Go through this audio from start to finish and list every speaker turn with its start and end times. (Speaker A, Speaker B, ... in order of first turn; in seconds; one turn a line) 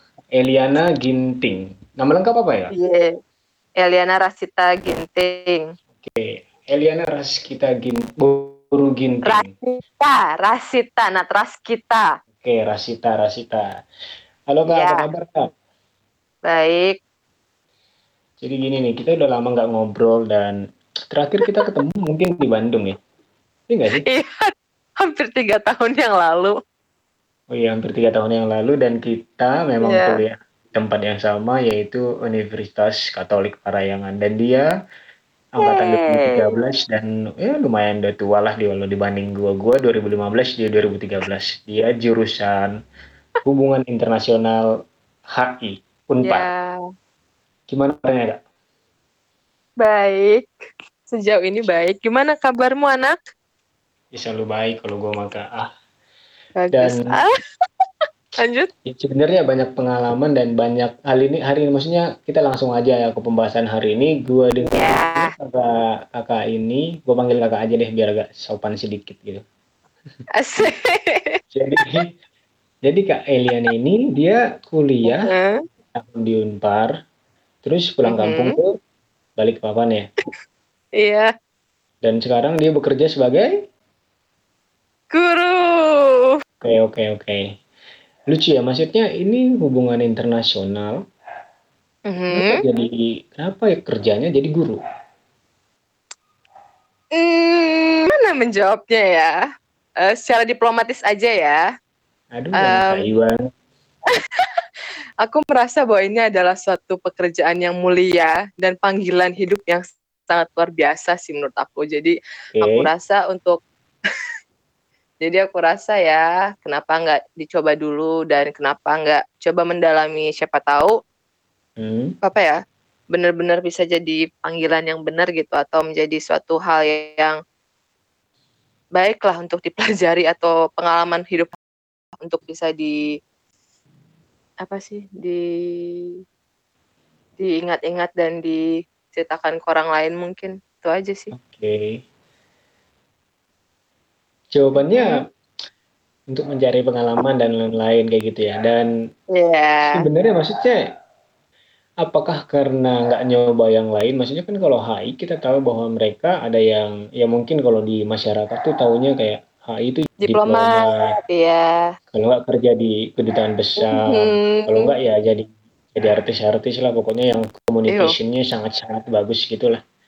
Speaker A: 0.3-2.7
Speaker B: 2.7-3.1
Speaker B: 3.8-5.7
Speaker A: 6.0-9.5
Speaker B: 9.2-12.0
Speaker A: 12.4-13.6
Speaker A: 14.5-15.4
Speaker B: 14.7-15.0
Speaker B: 16.5-17.0
Speaker A: 18.4-20.6
Speaker A: 21.1-23.0
Speaker A: 23.7-24.1
Speaker B: 24.1-26.5
Speaker A: 27.5-34.7
Speaker B: 29.8-30.2
Speaker A: 35.5-42.7
Speaker B: 35.6-36.5
Speaker A: 43.4-44.6
Speaker A: 45.3-46.5
Speaker B: 46.2-46.8
Speaker A: 47.7-48.4
Speaker B: 49.8-50.5
Speaker B: 51.1-53.1
Speaker A: 54.1-55.7
Speaker B: 56.6-57.3
Speaker A: 56.7-57.1
Speaker B: 58.4-58.7
Speaker A: 58.8-69.4
Speaker B: 64.7-65.3
Speaker B: 70.3-71.4
Speaker A: 71.5-72.1
Speaker A: 72.8-75.3
Speaker B: 75.1-75.6
Speaker A: 75.9-76.9
Speaker A: 77.6-78.7
Speaker B: 78.0-78.6
Speaker A: 79.4-80.1
Speaker B: 81.0-81.3
Speaker A: 82.0-83.5
Speaker B: 85.1-86.3
Speaker A: 86.6-87.5
Speaker A: 88.3-91.0
Speaker B: 92.1-92.6
Speaker A: 92.3-94.8
Speaker B: 97.2-99.3
Speaker B: 100.0-101.6
Speaker A: 102.3-103.4
Speaker B: 102.6-103.0
Speaker B: 104.1-104.5
Speaker B: 105.2-113.6
Speaker A: 112.5-112.9
Speaker B: 115.2-120.9
Speaker A: 121.8-122.1
Speaker B: 122.2-122.6
Speaker B: 123.1-127.4
Speaker B: 128.9-131.6
Speaker B: 132.2-132.9
Speaker B: 134.6-136.2
Speaker B: 137.4-141.3
Speaker A: 141.3-142.0
Speaker A: 144.5-145.2
Speaker B: 144.8-145.2
Speaker A: 146.3-148.9
Speaker B: 149.3-150.0
Speaker A: 149.9-150.9
Speaker A: 152.0-161.1
Speaker B: 160.2-161.9
Speaker A: 162.1-169.8
Speaker B: 163.8-164.9
Speaker B: 167.9-168.1